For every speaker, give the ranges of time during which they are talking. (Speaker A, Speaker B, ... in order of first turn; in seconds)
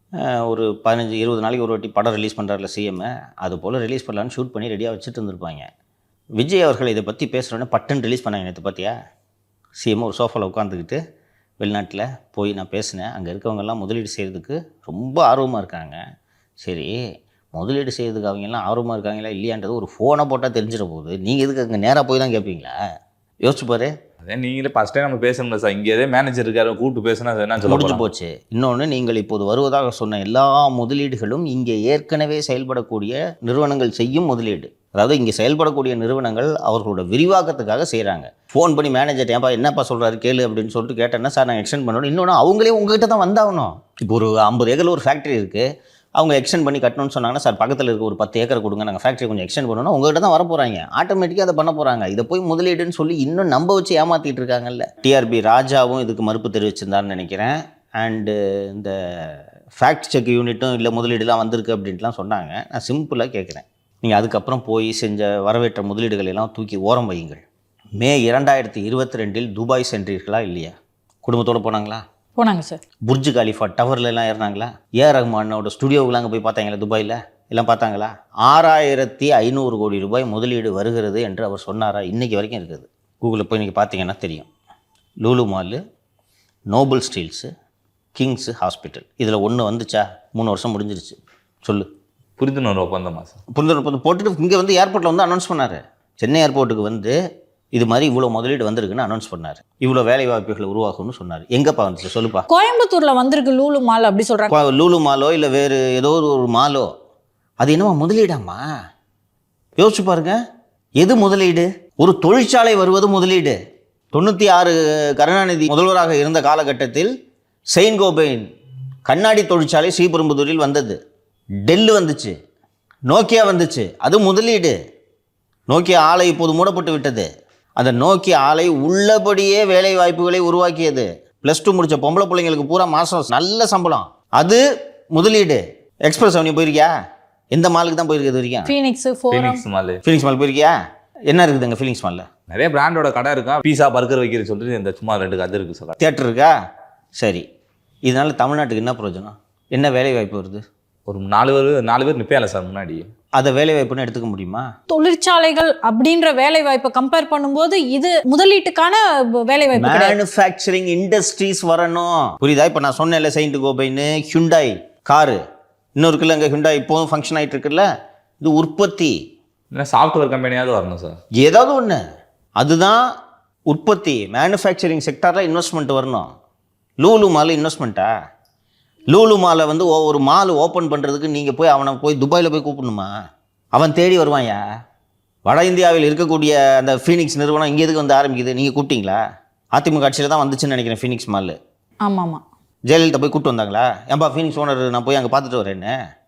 Speaker A: 0.2-5.7, 6.4-8.9, 9.8-11.0, 11.6-16.0, 16.6-16.9, 17.5-22.7, 23.4-23.9, 27.7-67.4, 68.0-70.7, 71.2-72.0, 73.1-84.5, 85.2-85.8, 86.7-87.5, 88.2-91.9, 93.5-97.2, 97.7-102.5, 104.5-106.9, 107.6-108.6, 109.8-110.4, 111.0-113.6, 114.1-117.1, 117.7-118.5, 119.1-121.0, 121.7-122.3, 123.1-124.8, 125.7-134.6, 135.1-136.9, 137.5-138.7, 140.0-140.8, 141.3-142.2, 146.0-146.5, 147.2-147.4, 148.1-150.6, 153.4-154.7, 159.8-165.4, 166.0-167.9, 168.4-169.2, 171.4-172.0, 172.6-173.1, 173.7-176.3, 177.0-178.1, 179.1-183.1, 183.7-184.7, 185.4-189.2, 189.7-191.6, 192.9-195.9
Speaker B: 24.2-28.1, 92.4-93.4, 139.3-140.0, 142.5-146.0, 151.1-153.1, 169.7-171.2
Speaker C: 72.4-72.8, 102.5-104.5, 138.7-139.6, 154.9-160.2, 192.1-192.4